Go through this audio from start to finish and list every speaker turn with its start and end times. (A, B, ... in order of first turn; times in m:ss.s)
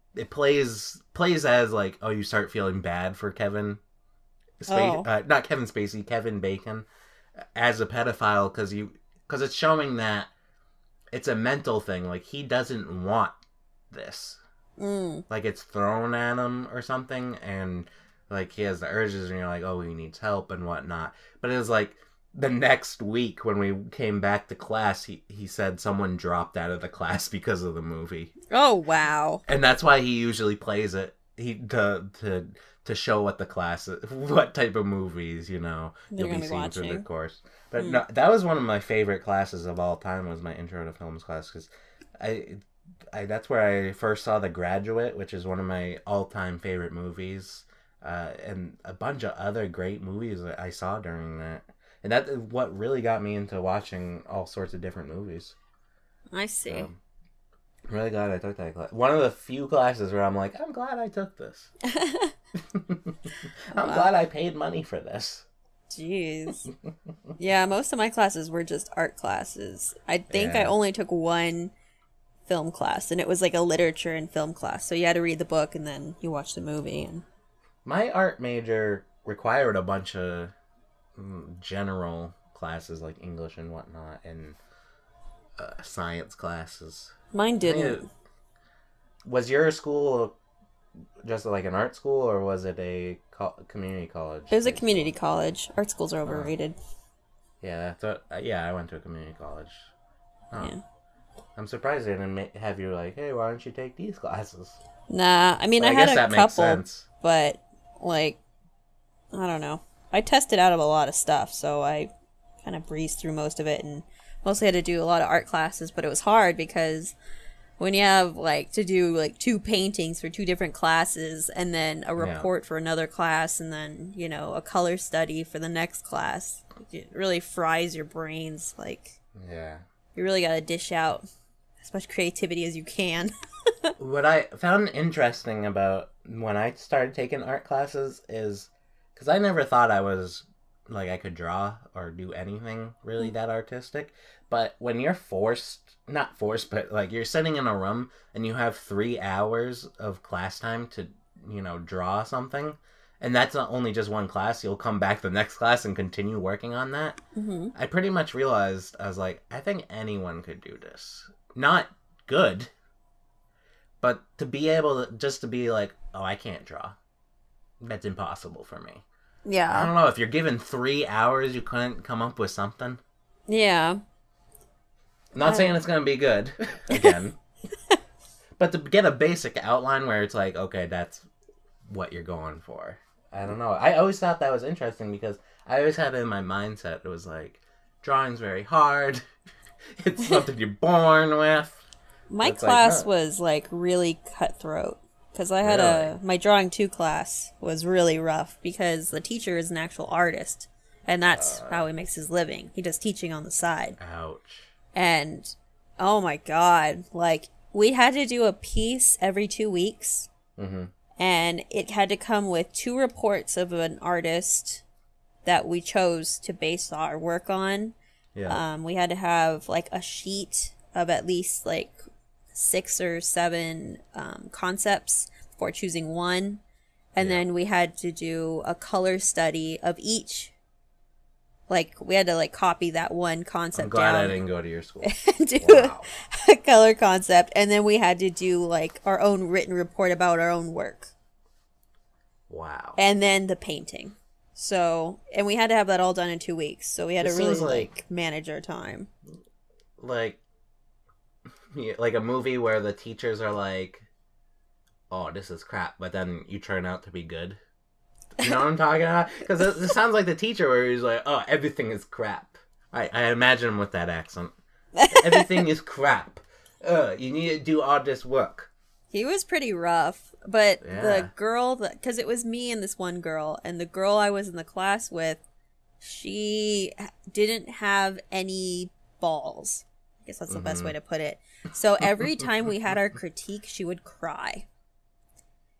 0:00.2-0:03.8 A
0:04.6-0:06.8 A
0:04.7-0:05.0 B
0:07.6-0:10.3 A
0:11.1-0:13.4 A
0:13.9-0:14.4 A
0:14.8-0:15.2 B
0:15.3-0:28.3 A
0:28.5-0:29.4 B
0:29.4-0:55.5 A
0:36.1-0:37.0 B
0:37.8-0:38.0 B
0:56.3-0:56.9 B
0:56.7-0:57.0 A
0:57.9-1:01.7 A
1:01.8-1:02.3 B
1:02.7-1:03.2 A
1:03.7-1:05.4 A
1:03.7-1:04.1 B
1:05.9-1:06.7 B
1:07.4-1:11.7 B
1:10.3-1:10.7 A
1:12.5-1:17.2 B
1:17.8-1:20.5 A
1:21.2-1:24.6 A
1:25.6-1:28.0 A
1:27.3-1:28.0 B
1:29.2-1:30.4 A
1:31.2-1:35.1 A
1:34.5-1:36.8 B
1:36.2-1:36.5 A
1:37.6-1:39.9 A
1:41.6-1:44.8 A
1:45.1-1:48.4 B
1:45.8-1:47.0 A
1:49.3-1:52.1 B
1:52.6-1:57.2 B
1:57.8-2:09.2 B
2:02.2-2:02.5 A
2:09.4-2:09.8 A
2:10.1-2:11.2 B
2:11.8-2:13.3 B
2:14.0-2:37.2 A
2:37.3-2:37.7 B
2:37.7-2:42.7 A
2:44.0-2:47.0 A
2:47.8-2:49.0 A
2:49.4-2:49.9 B
2:49.7-2:53.0 A
2:53.5-2:54.0 B
2:55.3-2:57.4 A
2:55.4-2:55.7 B
2:56.9-2:57.2 B
2:58.6-3:01.3 A
3:01.8-3:09.2 A
3:10.0-3:11.8 A
3:12.3-3:24.0 B
3:12.4-3:13.1 A
3:15.6-3:16.1 A
3:21.3-3:21.8 A
3:24.0-3:24.7 A
3:24.9-3:30.3 B
3:30.6-3:30.9 A
3:31.2-3:34.8 B
3:35.4-3:38.0 B
3:38.3-3:38.6 A
3:38.5-3:42.0 B
3:42.5-3:46.6 B
3:47.1-3:50.5 B
3:51.7-3:54.4 B
3:53.7-3:56.1 A
3:55.0-4:01.1 B
4:02.5-4:03.0 A
4:03.0-4:09.1 B
4:07.2-4:07.9 A
4:10.0-4:10.4 A
4:11.7-4:14.1 A
4:15.1-4:17.6 A
4:18.4-4:24.5 A
4:25.0-4:25.5 B
4:25.1-4:28.7 A
4:29.1-4:35.4 B
4:30.8-4:31.3 A
4:36.0-4:44.6 B
4:40.5-4:40.9 A